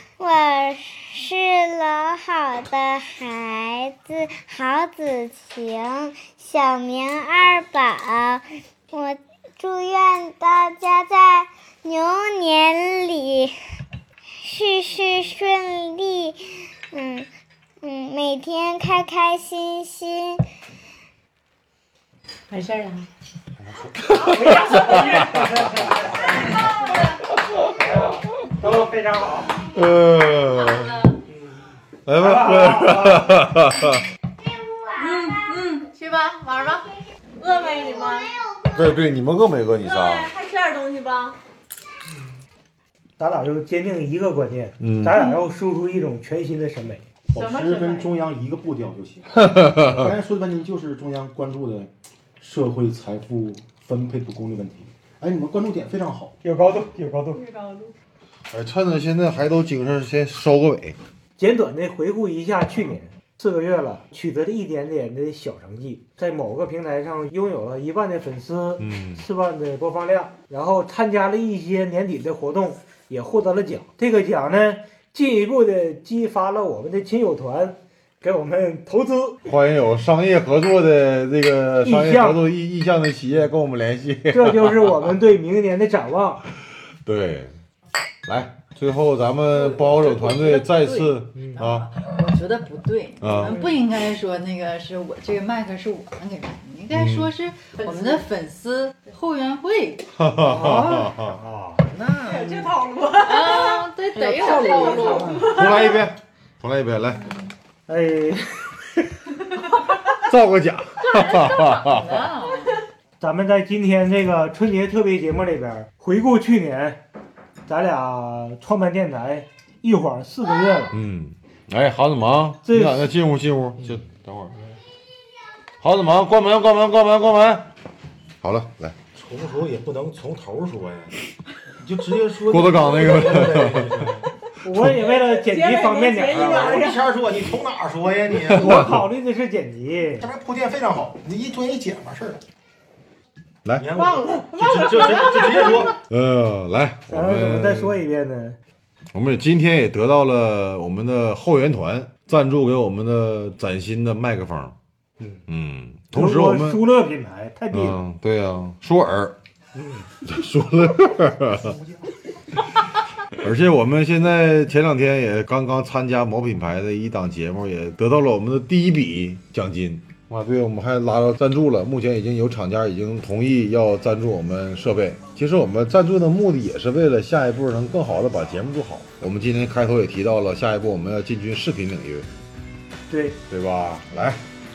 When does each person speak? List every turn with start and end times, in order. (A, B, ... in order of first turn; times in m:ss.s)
0:00.2-0:13.5 A
0:14.4-0:17.3 A
0:17.8-0:20.4 A
0:22.5-0:23.1 B
0:23.9-0:25.4 C
0:24.1-0:26.7 D
0:27.7-0:29.6 D
0:29.7-0:31.0 C
0:32.0-0:34.0 C
0:32.2-0:33.4 D
0:34.4-0:35.6 A
0:35.0-0:38.3 B
0:37.4-0:39.0 A
0:38.7-0:40.3 C
0:39.8-0:41.4 B
0:43.2-0:47.0 D
0:44.8-0:45.2 C
0:47.3-0:48.1 B
0:47.3-0:56.4 E
0:49.4-0:50.1 C
0:56.4-0:57.4 D
0:57.3-0:58.0 B
0:58.5-1:01.0 C
1:01.4-1:19.4 D
1:08.8-1:09.2 C
1:19.4-1:25.1 C
1:21.8-1:22.4 D
1:24.3-1:26.4 D
1:27.0-1:27.5 C
1:28.2-1:31.9 C
1:29.5-1:31.8 B
1:31.6-1:40.8 F
1:33.2-1:33.6 C
1:33.4-1:33.7 D
1:36.9-1:37.3 C
1:37.8-1:38.2 B
1:40.2-1:41.4 C
1:40.4-1:42.7 D
1:42.1-1:46.1 B
1:43.2-1:45.5 F
1:44.4-1:45.4 D
1:45.4-1:47.3 C
1:47.2-1:47.5 B
1:47.9-1:49.1 D
1:50.2-1:52.2 C
1:51.0-1:52.8 F
1:51.9-1:52.8 B
1:53.2-1:57.0 D
1:57.6-2:01.0 D
2:00.9-2:04.5 C
2:02.6-2:03.1 D
2:05.8-2:07.7 C
2:08.4-2:09.0 C
2:09.1-2:11.1 E
2:11.8-2:14.3 E
2:12.4-2:14.1 C
2:14.6-2:16.8 D
2:15.0-2:17.1 B
2:16.4-2:18.9 E
2:18.5-2:19.0 C
2:18.5-2:20.3 D
2:20.2-2:22.4 E
2:23.8-2:26.0 E
2:23.9-2:26.0 B
2:25.9-2:28.0 C
2:27.1-2:28.6 D
2:29.1-2:34.7 C
2:35.5-2:36.8 C
2:36.1-2:38.0 D
2:37.7-2:39.4 C
2:39.7-2:40.1 D
2:40.2-2:41.8 C
2:43.3-3:02.3 C
3:03.1-3:03.4 D
3:03.5-3:04.4 C